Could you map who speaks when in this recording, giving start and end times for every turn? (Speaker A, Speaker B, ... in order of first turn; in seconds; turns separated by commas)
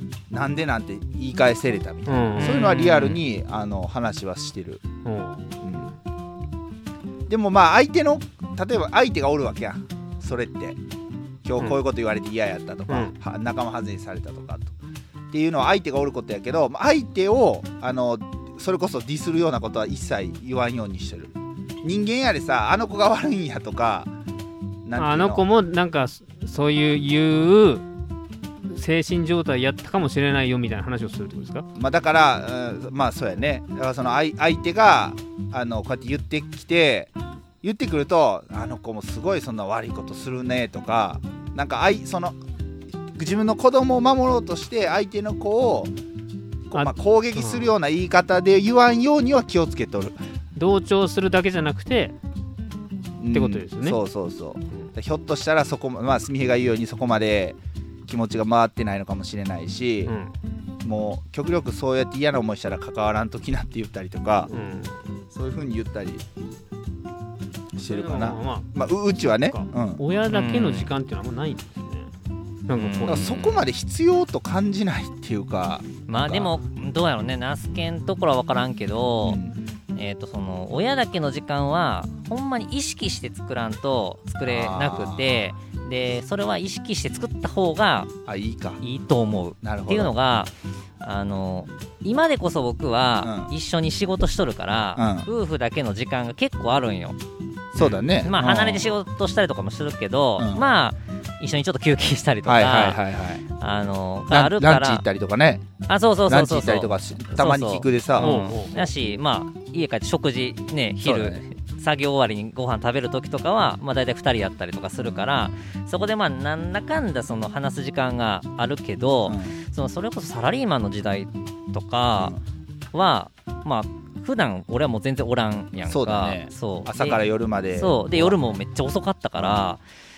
Speaker A: 0.3-4.8, Speaker B: 2.1-2.6, Speaker C: 2.4-3.2, Speaker B: 5.0-5.6, Speaker A: 5.6-5.9, Speaker A: 7.3-10.8, Speaker A: 11.4-14.8, Speaker B: 12.9-13.1, Speaker A: 15.3-24.1, Speaker A: 24.9-25.4, Speaker B: 25.0-27.9, Speaker B: 28.6-31.7, Speaker A: 31.8-37.1, Speaker A: 37.6-42.4, Speaker A: 43.1-45.9, Speaker A: 46.7-50.2, Speaker B: 46.7-47.7, Speaker B: 50.6-52.1, Speaker A: 53.2-60.1, Speaker B: 53.3-54.0, Speaker B: 60.0-60.3, Speaker A: 60.8-64.5, Speaker B: 64.5-65.0, Speaker A: 65.3-66.2, Speaker A: 67.8-70.0, Speaker B: 67.8-68.7, Speaker B: 69.3-72.1, Speaker C: 70.3-70.9, Speaker B: 72.7-73.3, Speaker C: 72.7-73.6, Speaker A: 73.1-76.5, Speaker C: 76.1-79.4, Speaker A: 79.2-79.6, Speaker C: 80.0-88.1, Speaker A: 84.5-85.5, Speaker A: 88.3-88.8, Speaker C: 88.8-97.2, Speaker A: 89.6-90.1, Speaker A: 93.2-93.5, Speaker A: 95.0-95.3, Speaker A: 97.7-98.9, Speaker C: 97.8-105.0, Speaker A: 100.4-100.6, Speaker A: 102.5-103.4, Speaker A: 104.3-105.7, Speaker C: 105.9-122.4, Speaker A: 106.3-108.6, Speaker B: 108.2-108.8, Speaker A: 111.0-111.4, Speaker A: 115.0-115.3, Speaker A: 119.3-119.6, Speaker C: 122.9-129.8, Speaker A: 125.9-128.5